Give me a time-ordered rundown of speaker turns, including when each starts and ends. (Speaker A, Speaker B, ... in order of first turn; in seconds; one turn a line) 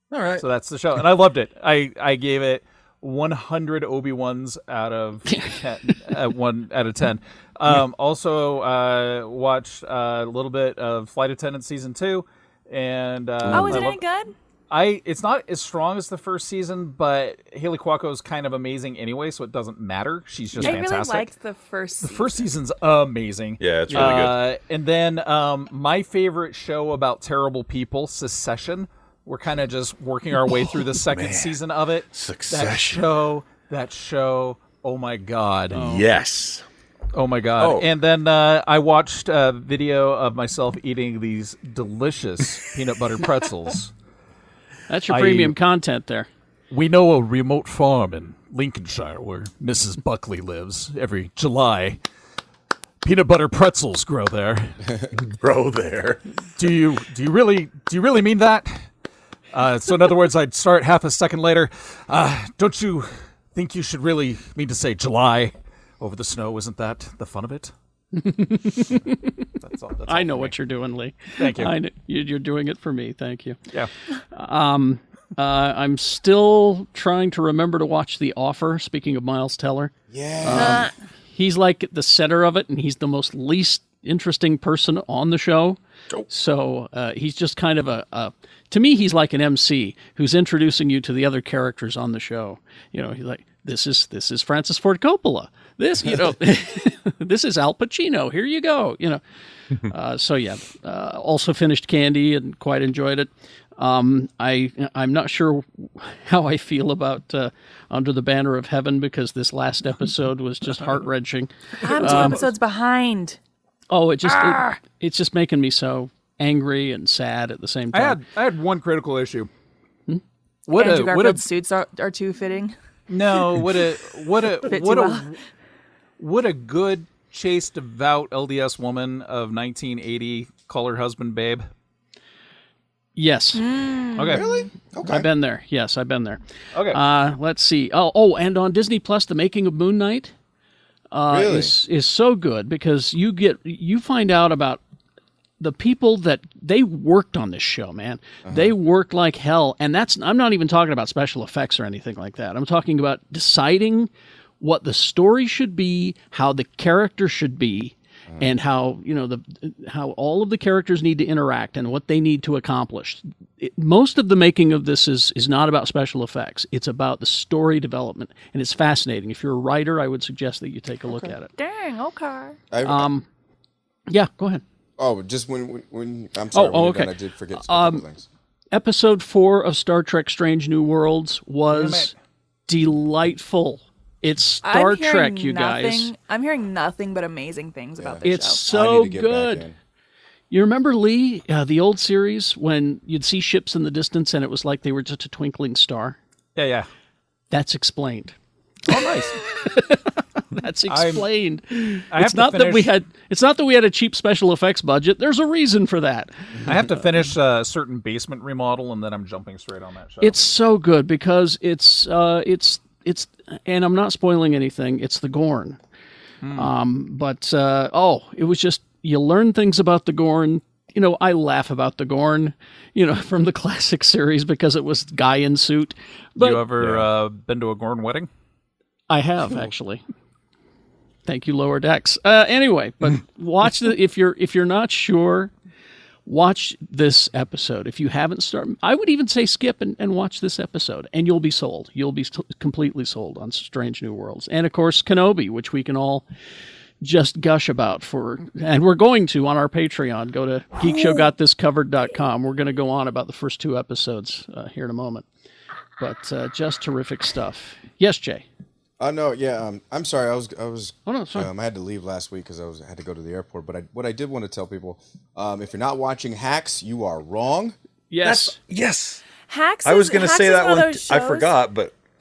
Speaker A: 0.1-0.4
Speaker B: 0.4-14.0
Speaker A: 13.5-13.8
Speaker C: 13.5-14.3
Speaker B: 14.7-21.3
Speaker C: 20.6-22.5
Speaker B: 22.0-35.8
Speaker A: 23.6-24.4
Speaker A: 30.4-31.6
Speaker A: 32.1-33.0
Speaker A: 35.7-36.6
Speaker D: 35.7-36.1
Speaker B: 37.1-43.9
Speaker A: 37.6-37.9
Speaker D: 44.9-46.3
Speaker B: 45.1-45.5
Speaker B: 46.7-52.0
Speaker B: 53.0-54.8
Speaker A: 55.2-56.2
Speaker B: 56.6-58.9
Speaker B: 59.5-67.7
Speaker D: 68.1-69.3
Speaker B: 69.6-70.5
Speaker D: 70.1-73.6
Speaker B: 71.4-71.7
Speaker D: 74.3-85.8
Speaker E: 80.1-80.9
Speaker C: 80.5-80.9
Speaker D: 86.3-99.2
Speaker D: 99.9-112.4
Speaker C: 111.8-113.4
Speaker B: 111.9-112.5
Speaker D: 113.9-118.2
Speaker C: 114.3-114.8
Speaker B: 117.9-119.5
Speaker B: 120.7-121.4
Speaker C: 120.8-122.8
Speaker B: 123.1-125.4
Speaker C: 124.6-125.3
Speaker B: 126.2-131.7
Speaker D: 133.2-133.6
Speaker C: 133.5-134.7
Speaker E: 134.3-135.3
Speaker D: 135.0-140.3
Speaker B: 136.7-137.0
Speaker D: 141.1-144.8
Speaker E: 141.3-141.7
Speaker D: 145.6-171.5
Speaker E: 148.4-148.8
Speaker E: 158.3-158.5
Speaker C: 171.1-172.6
Speaker E: 172.7-173.1
Speaker D: 172.8-173.3
Speaker D: 174.1-174.6
Speaker E: 175.0-178.3
Speaker D: 176.5-178.0
Speaker D: 178.7-182.1
Speaker B: 181.7-182.1
Speaker D: 182.7-186.1
Speaker C: 184.6-188.6
Speaker E: 188.0-189.8
Speaker D: 188.2-189.7
Speaker D: 190.5-196.2
Speaker B: 196.6-196.9
Speaker D: 197.5-198.3
Speaker B: 198.9-199.4
Speaker D: 199.4-206.4
Speaker B: 200.9-201.3
Speaker B: 202.1-202.9
Speaker B: 206.7-210.4
Speaker D: 210.2-215.8
Speaker B: 216.4-216.7
Speaker D: 216.6-226.7
Speaker B: 226.4-228.3
Speaker A: 226.8-227.1
Speaker D: 229.1-230.0
Speaker D: 231.3-235.5
Speaker D: 236.3-246.2
Speaker D: 247.0-255.2
Speaker D: 256.0-258.4
Speaker E: 259.0-267.8
Speaker D: 261.1-261.5
Speaker D: 268.1-268.6
Speaker A: 268.2-269.3
Speaker C: 269.4-271.5
Speaker A: 269.8-271.9